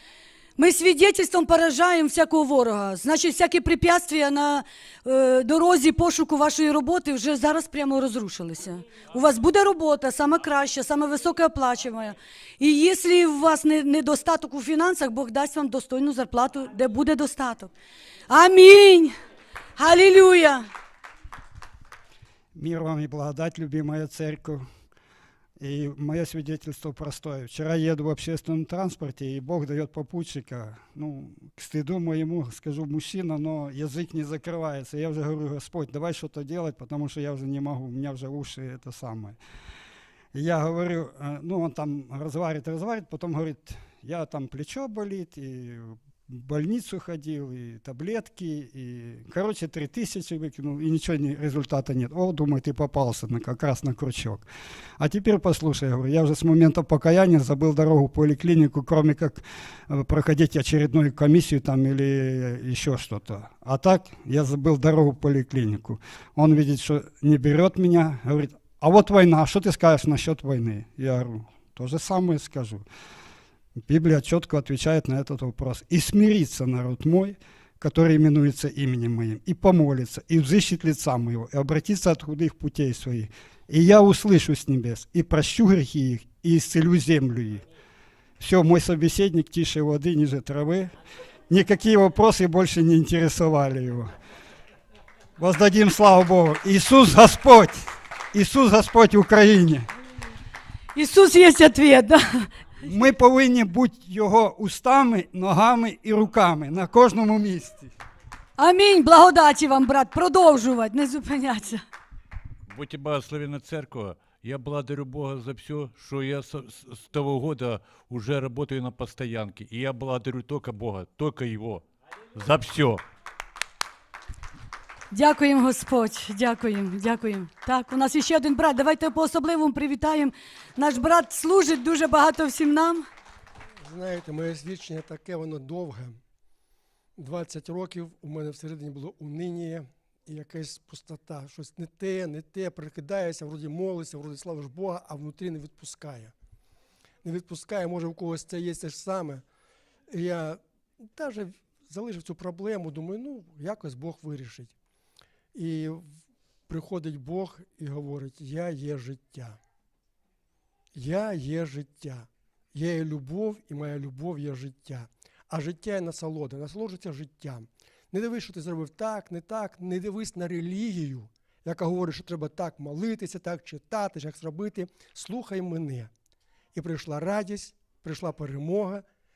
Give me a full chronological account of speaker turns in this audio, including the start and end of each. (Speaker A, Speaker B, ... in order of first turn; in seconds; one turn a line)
Speaker A: 0.6-17.7
Speaker A: 18.3-19.1
Speaker A: 19.8-20.6
Speaker B: 22.5-24.6
Speaker B: 25.6-39.4
Speaker B: 40.3-54.4
Speaker B: 55.0-72.8
Speaker B: 73.8-87.6
Speaker B: 88.4-90.9
Speaker B: 91.5-94.1
Speaker B: 95.4-99.9
Speaker A: 100.9-102.5
Speaker B: 102.8-107.9
Speaker A: 108.6-111.8
Speaker C: 112.7-123.0
Speaker A: 125.1-133.0
Speaker D: 133.8-136.2
Speaker D: 137.2-146.3
Speaker D: 147.2-149.4
Speaker D: 150.1-154.7
Speaker D: 155.5-156.1
Speaker D: 156.7-159.6
Speaker D: 160.9-176.1
Speaker D: 176.7-179.0